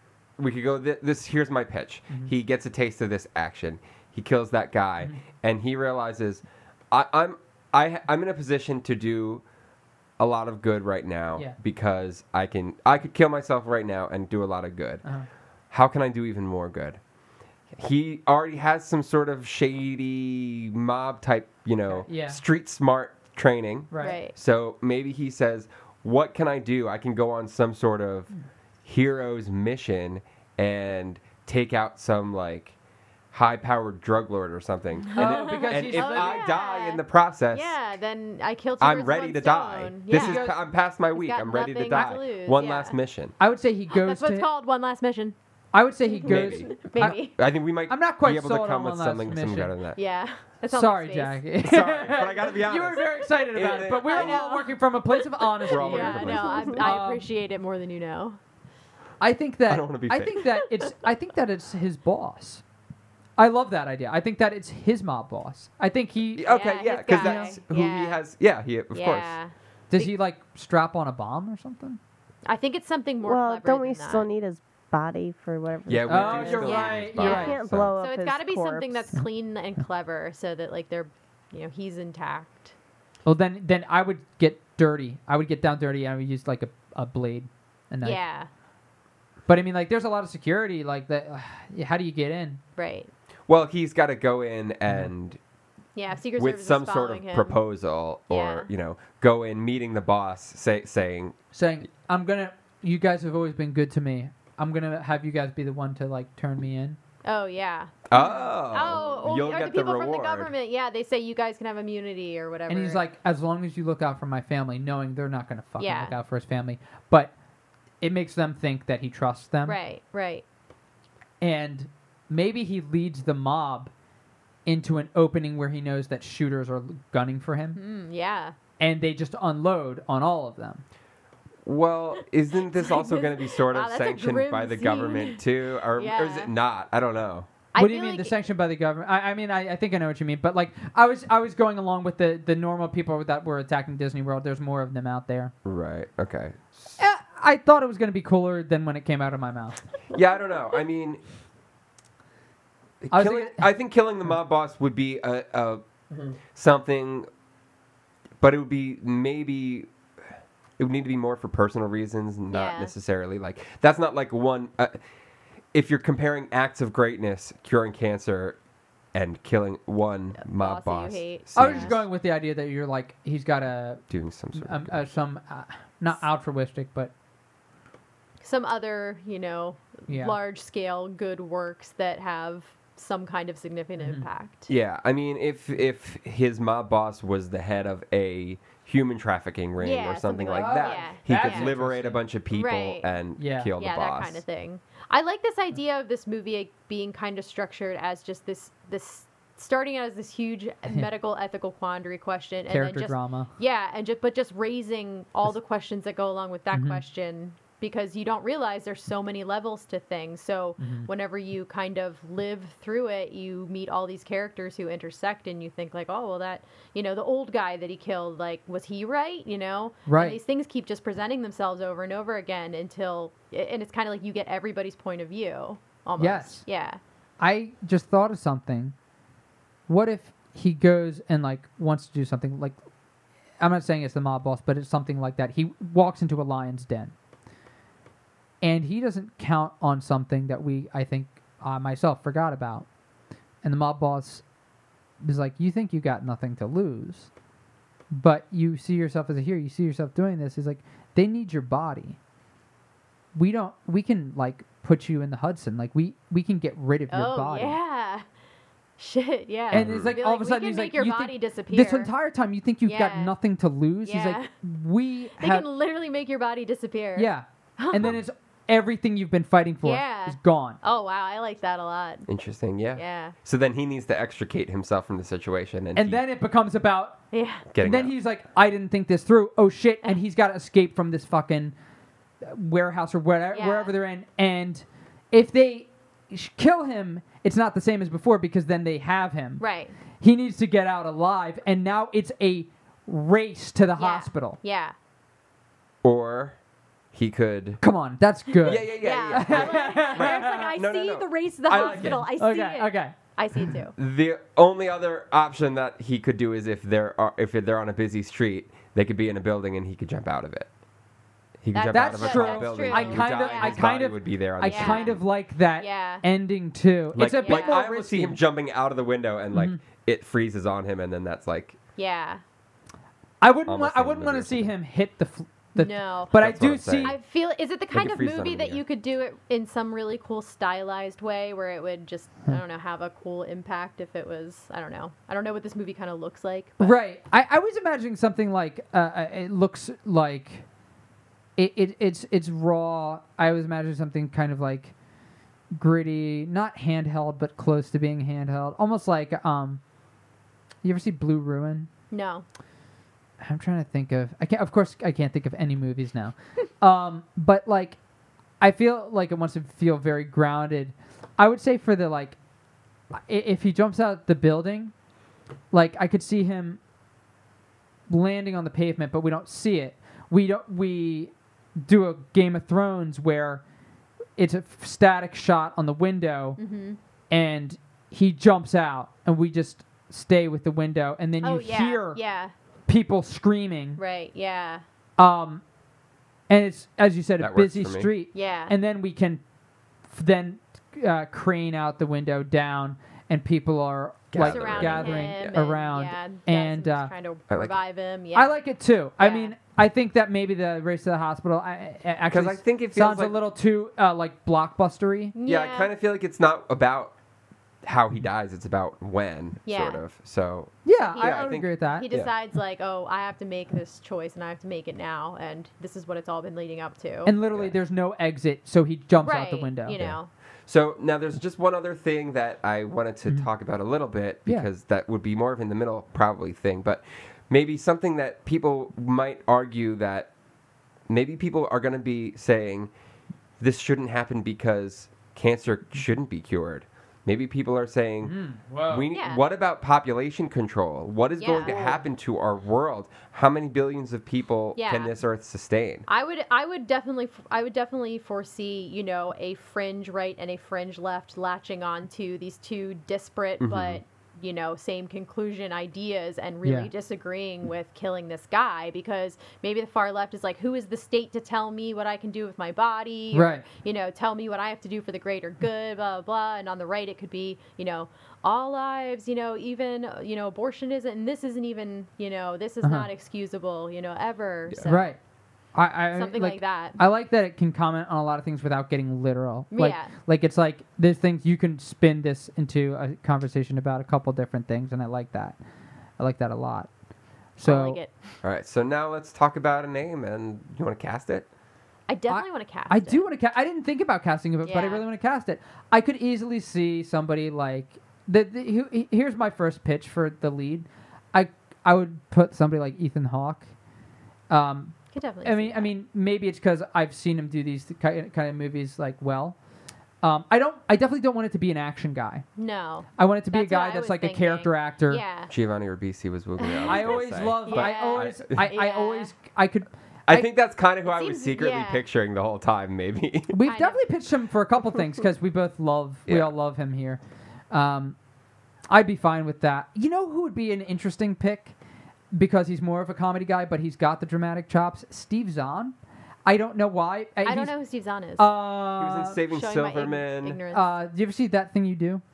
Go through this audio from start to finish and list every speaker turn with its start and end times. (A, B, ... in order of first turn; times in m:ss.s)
0:00.4-0:09.4 A
0:10.2-0:15.0 A
0:15.7-0:17.0 A
0:17.7-0:28.3 A
0:21.9-0:22.4 B
0:23.9-0:24.2 B
0:24.0-0:24.3 C
0:28.8-0:32.8 A
0:33.3-0:37.8 A
0:35.1-0:40.6 C
0:35.1-0:36.5 B
0:38.8-0:43.4 A
0:40.1-0:40.6 B
0:41.1-0:43.0 C
0:41.9-0:42.2 B
0:43.4-0:44.5 B
0:43.9-0:45.4 C
0:45.7-0:47.3 B
0:46.1-0:47.4 C
0:46.3-0:50.0 A
0:47.9-0:49.8 B
0:50.0-0:51.4 C
0:50.7-0:57.3 B
0:51.6-0:54.4 A
0:54.1-0:58.4 C
0:55.7-0:56.8 A
0:59.2-1:02.6 B
0:59.7-1:00.5 A
1:03.4-1:06.5 B
1:06.4-1:09.4 A
1:06.5-1:08.2 C
1:07.1-1:07.6 B
1:08.9-1:10.1 C
1:09.9-1:12.0 B
1:12.5-1:14.3 C
1:13.2-1:19.1 D
1:15.9-1:17.9 A
1:16.1-1:17.6 B
1:16.6-1:22.7 C
1:23.2-1:28.2 B
1:28.0-1:28.5 C
1:29.5-1:32.6 B
1:32.8-1:33.1 C
1:33.5-1:35.4 A
1:36.0-1:37.6 C
1:36.4-1:41.4 A
1:38.3-1:38.7 C
1:41.5-1:47.0 B
1:47.2-1:53.0 C
1:48.1-1:50.5 A
1:52.7-1:57.3 B
1:55.8-1:56.2 C
1:58.0-1:59.8 B
1:59.7-2:00.4 C
2:01.4-2:03.9 B
2:04.7-2:07.8 B
2:07.8-2:08.6 C
2:08.8-2:10.8 B
2:11.7-2:17.5 A
2:12.6-2:16.5 C
2:17.7-2:18.4 C
2:17.8-2:25.5 B
2:25.6-2:27.0 A
2:27.0-2:29.8 B
2:30.1-2:31.2 A
2:33.0-2:35.9 A
2:33.1-2:33.7 B
2:36.5-2:37.3 A
2:38.4-2:39.9 A
2:40.8-2:45.0 A
2:42.5-2:42.9 C
2:45.7-2:48.6 A
2:49.1-2:52.0 A
2:50.4-2:52.0 C
2:51.6-2:57.1 B
2:54.1-2:55.0 A
2:58.4-3:04.7 C
3:00.1-3:00.4 B
3:04.0-3:04.3 B
3:04.7-3:14.4 A
3:09.8-3:11.7 C
3:10.6-3:12.2 B
3:12.5-3:13.1 C
3:13.4-3:13.7 B
3:13.8-3:47.0 C
3:22.7-3:23.5 B
3:26.7-3:27.0 B
3:30.8-3:31.1 B
3:40.1-3:40.4 B
3:46.2-3:46.6 B
3:47.4-3:49.0 B
3:49.9-3:52.8 B
3:53.6-3:57.1 B
3:58.6-4:02.9 B
4:03.6-4:04.4 B
4:05.2-4:07.3 B
4:08.1-4:12.2 B
4:13.4-4:17.8 B
4:17.1-4:18.2 C
4:19.0-4:22.1 C
4:19.7-4:20.2 A
4:19.7-4:25.6 B
4:22.8-4:23.3 C
4:24.0-4:24.5 C
4:25.4-4:28.2 C
4:27.2-4:30.8 B
4:29.8-4:32.3 C
4:32.3-4:36.2 A
4:33.0-4:33.4 C
4:36.0-4:37.2 B
4:37.3-4:37.7 C
4:37.7-4:38.1 A
4:37.8-4:41.8 B
4:42.4-4:49.6 B
4:43.5-4:43.9 C
4:49.6-4:50.0 C
4:50.2-4:54.6 B
4:54.0-4:54.9 C
4:56.0-4:56.6 A
4:57.1-4:57.8 A
4:57.8-5:00.7 B
4:58.6-5:02.2 A
4:58.8-5:04.0 C
5:01.8-5:03.2 B
5:04.0-5:10.7 A
5:11.6-5:15.2 A
5:11.7-5:13.8 C
5:11.9-5:18.4 B
5:14.6-5:15.2 C
5:15.8-5:16.2 C
5:17.1-5:21.8 A
5:17.4-5:17.8 C
5:19.5-5:19.8 B
5:22.0-5:22.4 C
5:23.4-5:27.2 B
5:23.7-5:24.7 A
5:25.8-5:26.3 C
5:26.3-5:27.2 A
5:27.0-5:37.0 C
5:27.9-5:28.8 A
5:36.8-5:40.6 B
5:41.6-5:44.9 B
5:45.7-5:49.8 B
5:50.8-5:51.9 B
5:52.1-5:52.4 C
5:53.4-5:58.0 B
5:58.6-6:02.4 B
6:03.1-6:04.9 B
6:05.7-6:06.8 B
6:08.1-6:13.6 B
6:14.4-6:16.6 B
6:16.6-6:17.0 C
6:17.3-6:22.2 B
6:21.4-6:22.5 C
6:22.9-6:24.0 B
6:24.0-6:24.8 C
6:25.2-6:25.6 B
6:26.5-6:29.4 B
6:27.4-6:28.1 A
6:28.3-6:28.7 C
6:30.1-6:37.1 B
6:34.3-6:35.6 A
6:34.5-6:38.6 C
6:37.5-6:37.8 A
6:38.4-6:45.4 B
6:39.2-6:39.5 C
6:42.3-6:43.4 A
6:45.4-6:45.9 C
6:45.5-6:47.1 A
6:47.8-6:52.3 A
6:49.7-6:50.0 C
6:50.8-6:52.1 B
6:51.1-6:57.3 C
6:57.2-7:00.2 B
6:59.2-7:00.3 C
7:00.7-7:10.3 A
7:11.1-7:12.9 A
7:13.6-7:18.4 A
7:18.2-7:19.1 B
7:18.9-7:26.1 A
7:19.1-7:19.4 C
7:21.4-7:22.0 C
7:24.8-7:25.2 C
7:26.1-7:55.2 C
7:33.6-7:34.0 A
7:36.6-7:36.9 B
7:43.3-7:43.6 B
7:52.8-7:53.1 B
7:54.8-7:55.2 B
7:55.8-8:05.6 B
7:56.1-7:57.0 C
7:59.7-8:00.1 C
8:06.2-8:06.9 B
8:07.6-8:08.0 B
8:07.6-8:08.1 C
8:08.4-8:11.5 A
8:12.1-8:13.3 C
8:12.3-8:23.7 B
8:14.6-8:15.0 C
8:24.5-8:29.6 B
8:25.1-8:25.9 C
8:30.2-8:32.4 B
8:32.6-8:35.5 C
8:33.2-8:35.2 B
8:35.5-8:38.7 A
8:36.6-8:37.1 C
8:36.8-8:40.5 B
8:37.6-8:39.3 C
8:40.3-8:43.5 A
8:41.0-8:42.0 C
8:43.5-8:47.2 B
8:43.7-8:44.0 C
8:47.7-8:48.2 B
8:48.9-8:51.8 B
8:52.3-8:56.0 B
8:56.5-8:57.7 B
8:57.5-8:58.5 C
8:58.4-8:59.4 B
8:59.0-9:00.6 A
8:59.5-9:01.0 C
9:00.7-9:02.2 B